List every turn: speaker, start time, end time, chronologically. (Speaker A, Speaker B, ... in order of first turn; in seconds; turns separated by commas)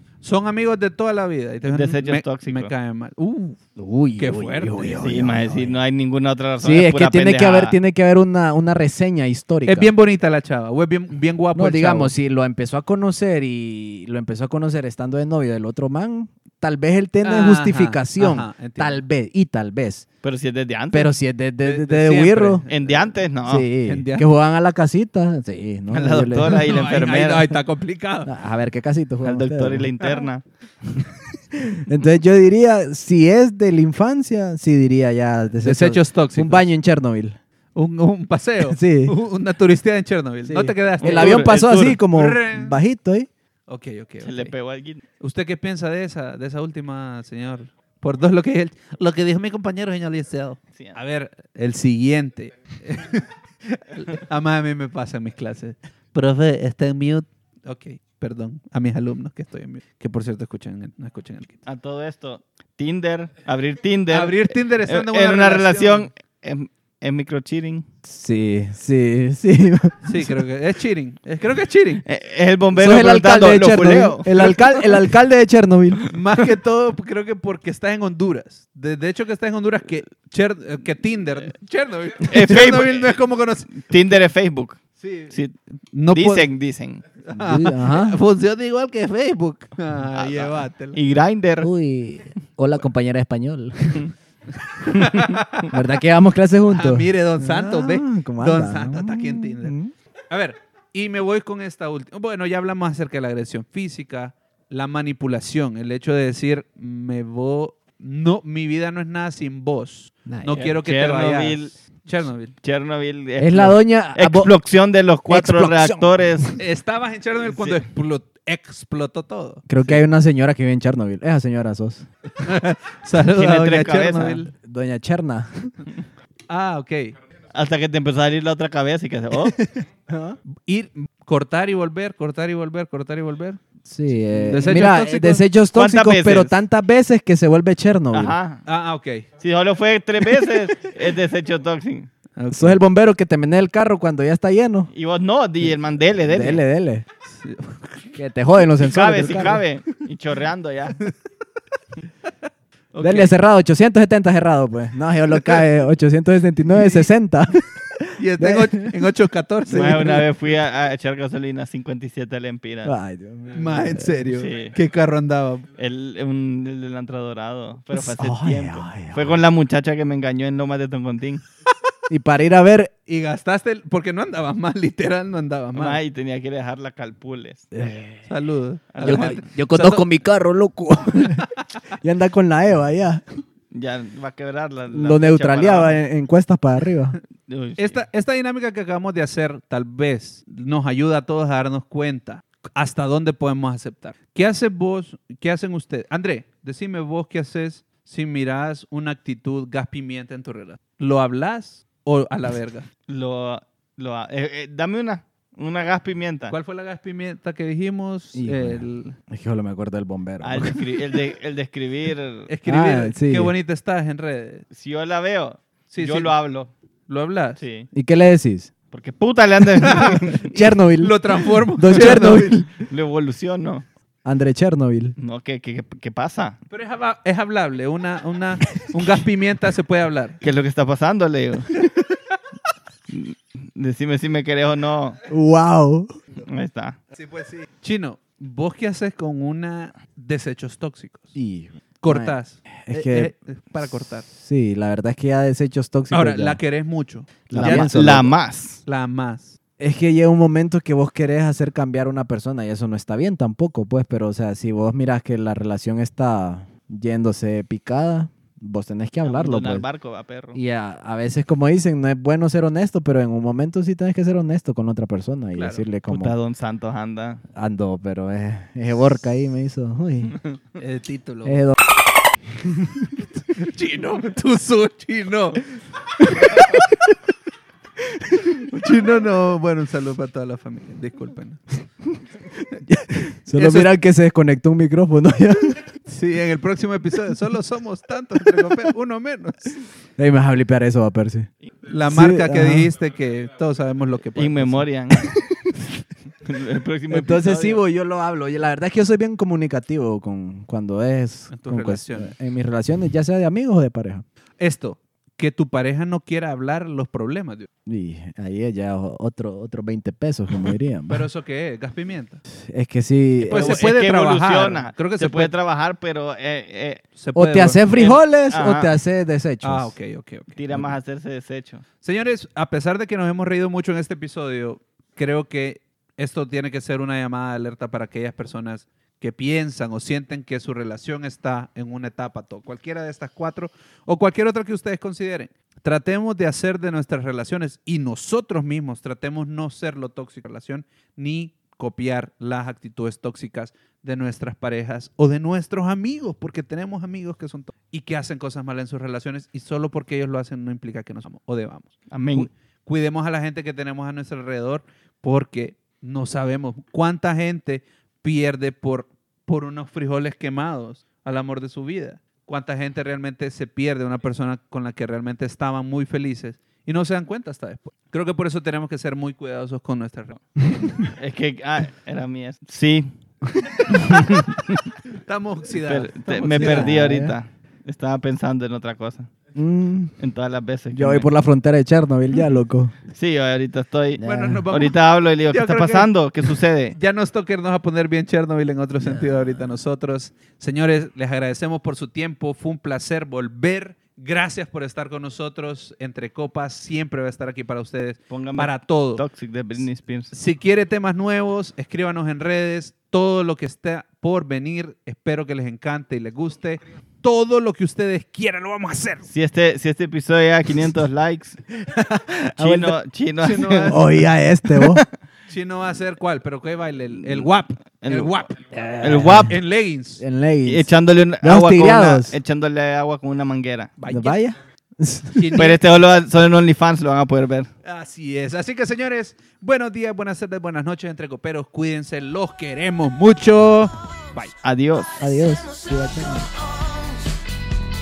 Speaker A: 0.2-3.6, Speaker B: 1.6-2.7, Speaker C: 3.8-5.8, Speaker A: 4.2-5.0, Speaker B: 5.0-7.8, Speaker C: 6.6-9.9, Speaker A: 9.7-12.1, Speaker C: 11.5-20.1, Speaker A: 17.2-19.0, Speaker B: 20.2-21.1, Speaker C: 20.9-22.6, Speaker A: 21.6-23.1, Speaker B: 22.7-23.7, Speaker C: 23.4-26.8, Speaker A: 23.8-24.3, Speaker B: 25.9-27.5, Speaker A: 26.0-28.3, Speaker C: 28.2-29.9, Speaker B: 29.2-30.4, Speaker C: 31.5-37.4, Speaker A: 35.6-36.6, Speaker A: 37.7-42.8, Speaker C: 38.6-39.1, Speaker C: 40.4-43.3, Speaker B: 41.0-41.9, Speaker A: 43.7-44.5, Speaker B: 44.2-45.0, Speaker A: 45.2-61.5, Speaker B: 61.6-67.8, Speaker A: 64.1-66.1, Speaker C: 68.0-70.3, Speaker A: 70.0-72.0, Speaker B: 72.0-74.3, Speaker C: 72.7-76.1, Speaker A: 76.1-83.8, Speaker B: 82.2-83.2, Speaker B: 83.7-85.5, Speaker A: 85.0-85.3, Speaker A: 85.9-86.5, Speaker B: 86.1-87.0, Speaker A: 87.2-91.0, Speaker C: 87.3-88.2, Speaker B: 90.1-91.7, Speaker C: 91.6-94.1, Speaker A: 94.9-95.7, Speaker C: 95.7-99.9, Speaker A: 96.7-99.8, Speaker A: 100.3-112.5, Speaker C: 110.2-110.7, Speaker B: 110.6-111.7, Speaker B: 112.6-116.5, Speaker C: 113.4-114.5, Speaker C: 115.3-116.6, Speaker A: 116.6-120.0, Speaker B: 117.5-117.8, Speaker C: 119.7-122.1, Speaker A: 122.4-124.5, Speaker B: 123.3-124.4, Speaker C: 124.5-125.8, Speaker A: 126.5-127.1, Speaker B: 127.5-129.6, Speaker A: 129.6-129.8, Speaker C: 130.1-130.4, Speaker A: 130.5-133.6, Speaker C: 133.8-138.4, Speaker A: 134.5-135.4, Speaker B: 135.7-136.5, Speaker B: 138.1-138.6, Speaker A: 138.7-139.3, Speaker B: 139.4-142.1, Speaker A: 142.3-142.8, Speaker C: 142.5-144.9, Speaker B: 144.9-146.6, Speaker C: 146.2-147.1, Speaker A: 147.3-148.1, Speaker C: 148.1-149.6, Speaker B: 148.8-151.0, Speaker A: 152.9-153.3, Speaker C: 153.0-158.9, Speaker A: 156.7-157.1, Speaker A: 158.2-160.2, Speaker B: 159.7-162.9, Speaker C: 162.8-164.2, Speaker A: 163.5-165.7, Speaker B: 164.4-164.7, Speaker B: 165.8-171.4, Speaker C: 167.9-169.4, Speaker C: 172.1-172.9, Speaker A: 173.1-176.0, Speaker B: 175.7-177.7, Speaker C: 177.7-178.3, Speaker A: 178.3-180.0, Speaker B: 178.9-179.3, Speaker C: 179.0-183.2, Speaker B: 183.7-186.0, Speaker C: 184.9-187.2, Speaker B: 187.5-188.0, Speaker A: 187.8-202.9, Speaker B: 203.1-206.5, Speaker A: 206.5-209.2, Speaker C: 208.3-211.0, Speaker B: 210.4-212.5, Speaker A: 212.5-214.6, Speaker C: 212.7-213.5, Speaker B: 214.7-216.7, Speaker A: 215.9-216.3, Speaker A: 217.1-217.6, Speaker B: 217.6-217.9, Speaker C: 217.9-218.7, Speaker B: 218.9-220.5, Speaker A: 219.8-222.7, Speaker C: 220.4-222.7, Speaker B: 222.9-223.8, Speaker C: 224.2-225.2, Speaker B: 225.2-226.6, Speaker A: 226.7-230.4, Speaker B: 230.4-231.8, Speaker B: 233.1-235.2, Speaker C: 235.3-236.1, Speaker B: 236.4-237.0, Speaker A: 237.1-241.3, Speaker C: 241.3-243.3, Speaker A: 242.0-244.2, Speaker C: 244.2-246.6, Speaker A: 246.1-248.2, Speaker C: 247.5-248.3, Speaker B: 247.5-248.8, Speaker A: 248.8-249.6, Speaker C: 249.8-259.8, Speaker B: 259.2-260.6, Speaker C: 260.5-266.3, Speaker A: 265.6-265.8, Speaker B: 266.1-267.4, Speaker C: 267.5-270.4, Speaker A: 270.8-271.6, Speaker C: 271.4-271.8, Speaker C: 272.6-273.2, Speaker A: 273.5-275.6, Speaker A: 276.4-276.8, Speaker C: 278.1-278.5, Speaker A: 278.7-281.6, Speaker C: 282.8-285.8, Speaker A: 283.5-283.9, Speaker A: 286.1-289.7, Speaker C: 290.2-291.5, Speaker A: 291.9-294.9, Speaker C: 292.1-292.9, Speaker B: 294.3-295.3, Speaker B: 296.4-297.8, Speaker C: 297.1-304.2, Speaker A: 301.5-302.3, Speaker A: 304.6-307.7, Speaker C: 307.9-311.3, Speaker A: 311.1-312.4, Speaker C: 312.5-313.8, Speaker A: 313.4-315.5, Speaker B: 313.5-317.0, Speaker A: 317.1-317.8, Speaker C: 317.3-319.9, Speaker B: 317.9-318.9, Speaker A: 319.6-320.9, Speaker B: 320.6-321.8, Speaker A: 322.0-370.6, Speaker B: 352.1-352.5, Speaker B: 371.0-373.1, Speaker C: 373.9-374.4, Speaker B: 373.9-374.9, Speaker A: 375.1-377.0, Speaker B: 375.9-379.3, Speaker C: 376.5-377.4, Speaker C: 379.5-380.1, Speaker B: 380.2-381.3, Speaker C: 380.9-382.9, Speaker B: 383.1-386.9, Speaker C: 384.2-384.6, Speaker A: 384.2-386.1, Speaker A: 386.9-399.2, Speaker B: 398.3-400.3, Speaker A: 400.3-409.3, Speaker B: 409.3-411.6, Speaker C: 411.9-413.0, Speaker B: 412.6-414.0, Speaker A: 413.4-414.0, Speaker C: 413.9-415.0, Speaker B: 414.7-415.0, Speaker A: 415.5-418.6, Speaker B: 418.0-418.4, Speaker C: 418.7-419.6, Speaker B: 419.0-419.5, Speaker A: 419.3-420.2, Speaker C: 420.2-420.9, Speaker B: 420.6-423.9, Speaker C: 421.4-422.4, Speaker A: 424.0-424.4, Speaker C: 424.1-425.6, Speaker A: 425.4-425.8, Speaker B: 425.5-427.7, Speaker A: 427.8-434.5, Speaker B: 434.6-435.1, Speaker D: 434.9-437.4, Speaker C: 435.2-436.5